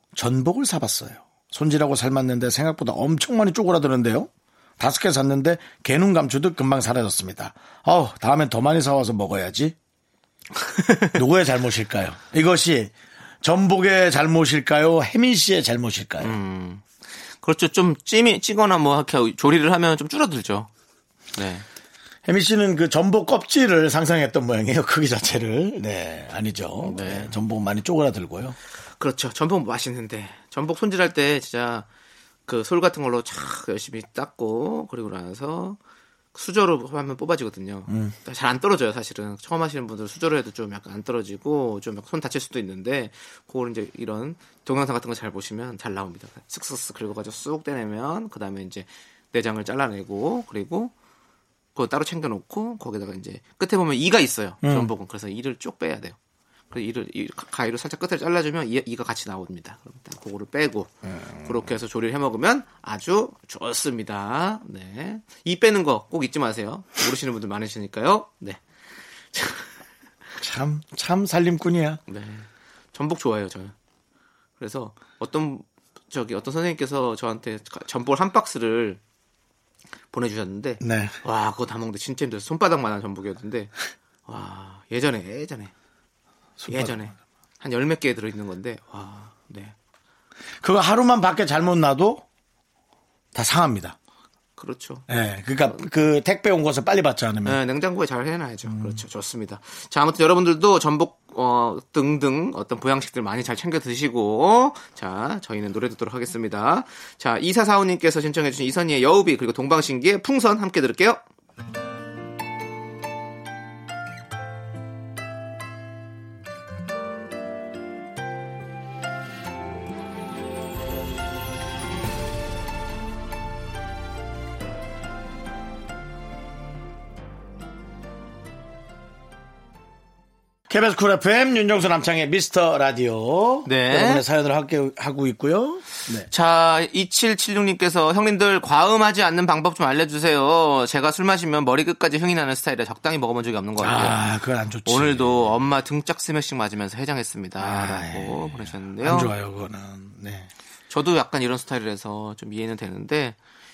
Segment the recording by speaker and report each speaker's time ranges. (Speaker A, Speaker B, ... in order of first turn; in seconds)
Speaker A: 0.1-9.8, 11.1-16.4, 22.3-28.6, 37.9-38.1, 54.6-54.9, 61.1-61.5, 70.4-72.0, 80.8-81.2, 86.6-87.0, 90.6-92.2, 93.3-94.0, 95.1-97.6, 98.7-99.0, 130.7-136.3, 143.8-145.6, 147.6-150.5
Speaker B: 10.8-11.1, 16.2-16.8, 17.4-20.7, 21.3-21.6, 26.8-27.3, 29.0-31.9, 32.5-35.8, 36.3-50.9, 51.8-56.2, 56.7-68.6, 69.3-69.7, 72.1-73.7, 74.6-79.0, 80.1-83.7, 84.3-85.7, 86.7-89.8, 94.6-95.0, 97.5-111.2, 133.7-134.2, 136.3-144.2, 144.9-149.3, 150.9-153.4